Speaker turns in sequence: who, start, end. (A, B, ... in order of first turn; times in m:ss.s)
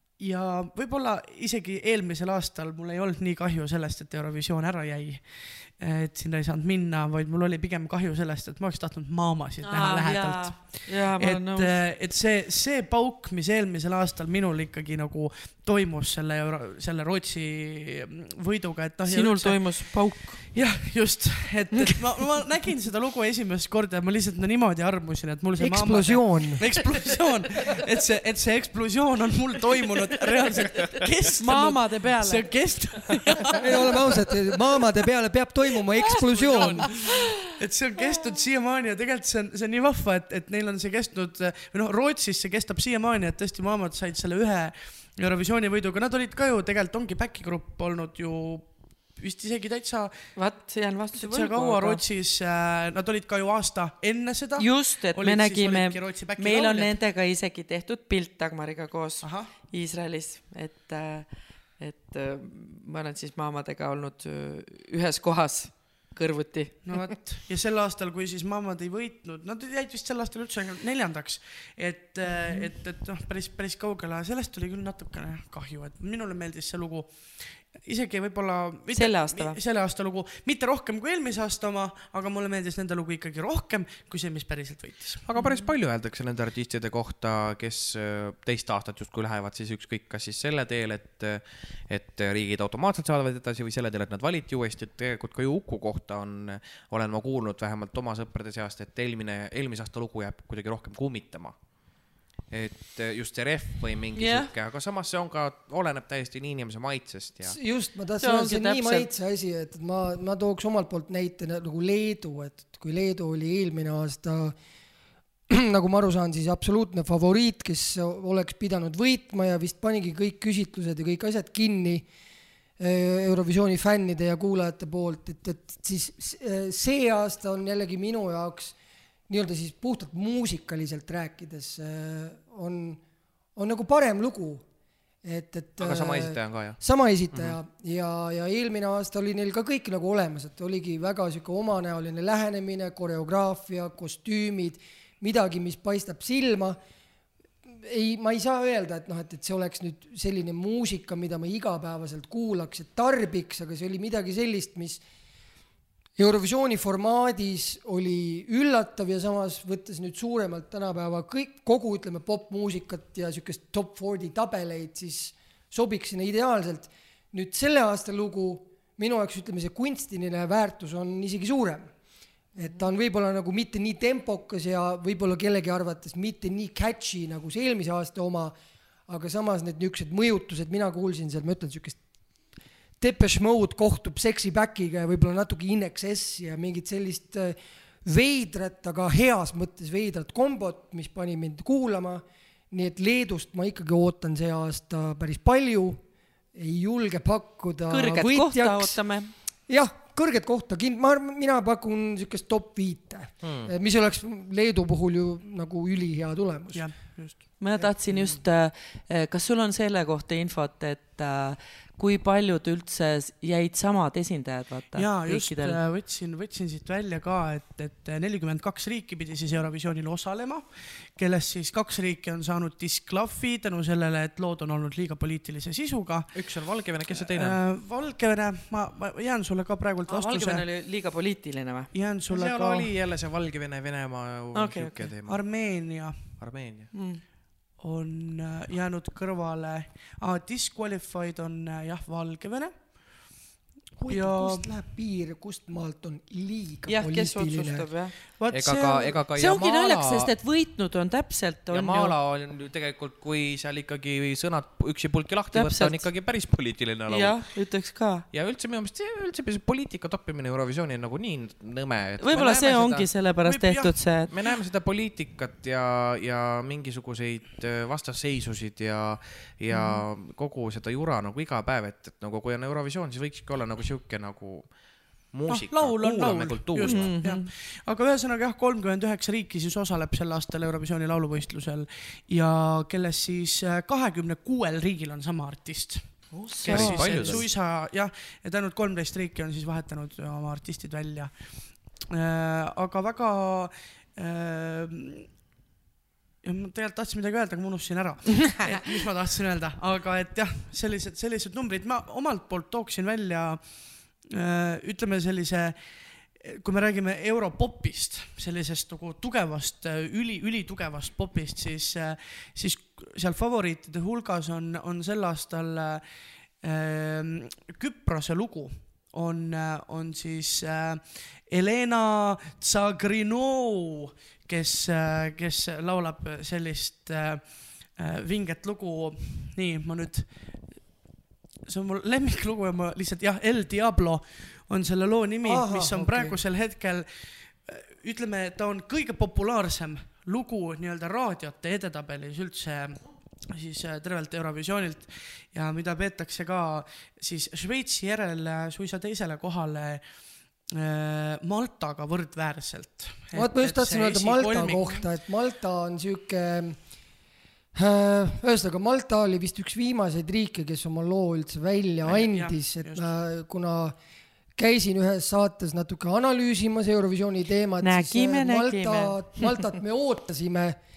0:00.2-0:34.3 A
0:09.6-0:11.8 B
0:19.1-0:20.4 B
0:25.6-0:26.8 C
0:26.7-0:27.7 B
0:30.3-0:32.5 B
0:33.5-0:34.2 B
0:33.6-0:37.0 C
0:36.0-0:50.3 A
0:50.4-0:52.0 B
0:51.2-0:56.9 A
0:54.6-1:07.1 B
0:59.2-0:59.5 A
1:06.9-1:25.2 A
1:18.9-1:19.6 B
1:25.2-1:41.6 D
1:25.4-1:25.7 B
1:42.5-1:47.6 D
1:44.2-1:44.5 B
1:47.4-1:54.6 C
1:48.2-1:49.1 B
1:55.5-2:02.1 C
2:02.8-2:08.8 C
2:09.3-2:13.0 C
2:13.6-2:14.6 C
2:15.2-2:26.8 C
2:15.8-2:16.8 D
2:17.3-2:17.6 D
2:27.7-2:35.0 C
2:36.2-2:51.9 C
2:52.6-2:58.6 C
2:59.1-3:02.0 C
3:03.0-3:16.0 C
3:16.5-3:19.0 C
3:17.9-3:19.3 B
3:19.7-3:27.2 C
3:23.4-3:23.7 D
3:26.7-3:27.5 A
3:27.6-3:35.8 B
3:27.8-3:28.4 C
3:34.9-3:46.4 A
3:46.3-3:47.6 D
3:47.2-3:50.6 A
3:50.1-3:51.9 B
3:51.9-3:52.9 A
3:52.3-3:55.4 D
3:54.5-3:55.1 B
3:55.3-3:56.3 A
3:56.4-3:56.9 D
3:56.9-3:57.2 B
3:57.8-4:03.4 A
4:04.0-4:07.9 C
4:04.1-4:04.7 A
4:06.9-4:08.2 B
4:08.4-4:09.2 A
4:08.5-4:10.3 D
4:09.4-4:12.2 B
4:11.7-4:17.6 D
4:15.5-4:16.1 B
4:17.1-4:18.2 B
4:18.3-4:23.1 D
4:22.2-4:24.3 B
4:23.4-4:24.0 A
4:24.3-4:37.2 D
4:29.7-4:30.0 B
4:35.5-4:55.3 A
4:36.8-4:37.5 B
4:46.3-4:47.5 B
4:46.6-4:47.5 D
4:56.4-5:30.9 A
5:31.6-5:55.1 A
5:35.4-5:36.4 C
5:53.3-5:56.8 C
5:57.8-6:04.0 C
6:02.0-6:03.1 A
6:04.6-6:10.8 C
6:07.8-6:09.4 B